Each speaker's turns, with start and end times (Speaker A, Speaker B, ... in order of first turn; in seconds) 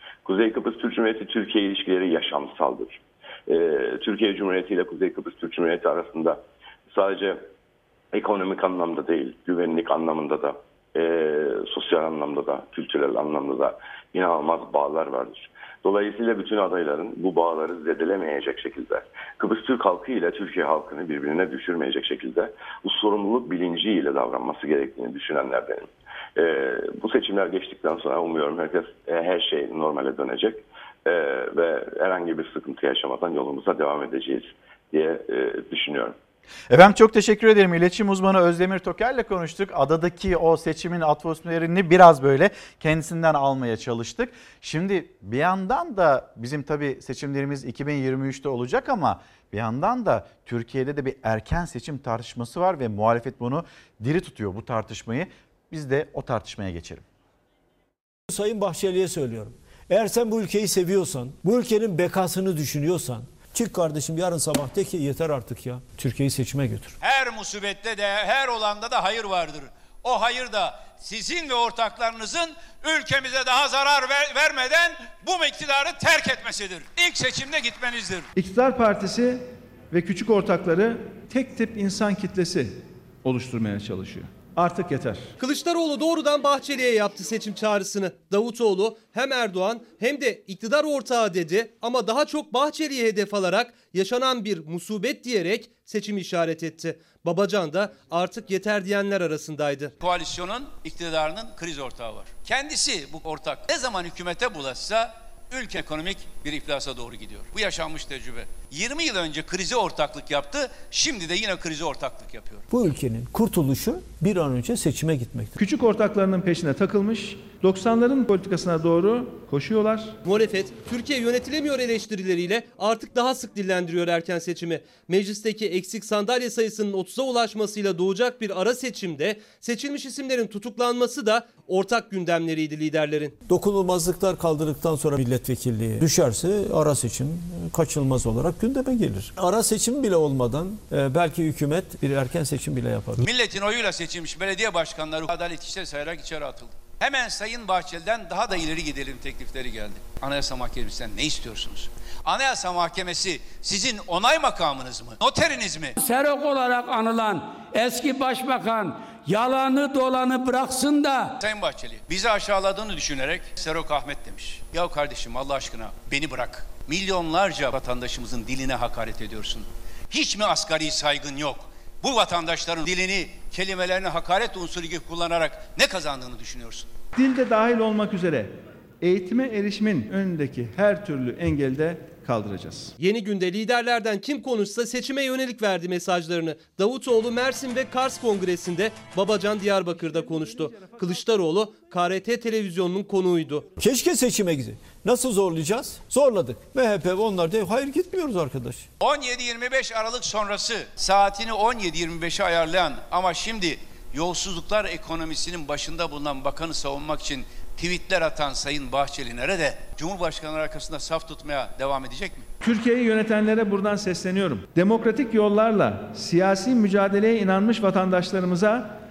Speaker A: 0.2-7.5, 8.1-36.1
Speaker B: 36.7-57.0
Speaker C: 58.3-67.0, 112.7-115.5, 133.5-143.2, 193.8-198.9
Speaker D: 67.0-78.3, 100.0-112.6, 143.2-155.9, 161.4-176.9, 199.0-212.4
Speaker E: 78.3-85.3, 115.6-120.2, 177.2-182.9, 212.6-218.9
Speaker F: 85.4-99.9, 120.3-133.3, 183.0-193.6
Speaker G: 156.0-161.3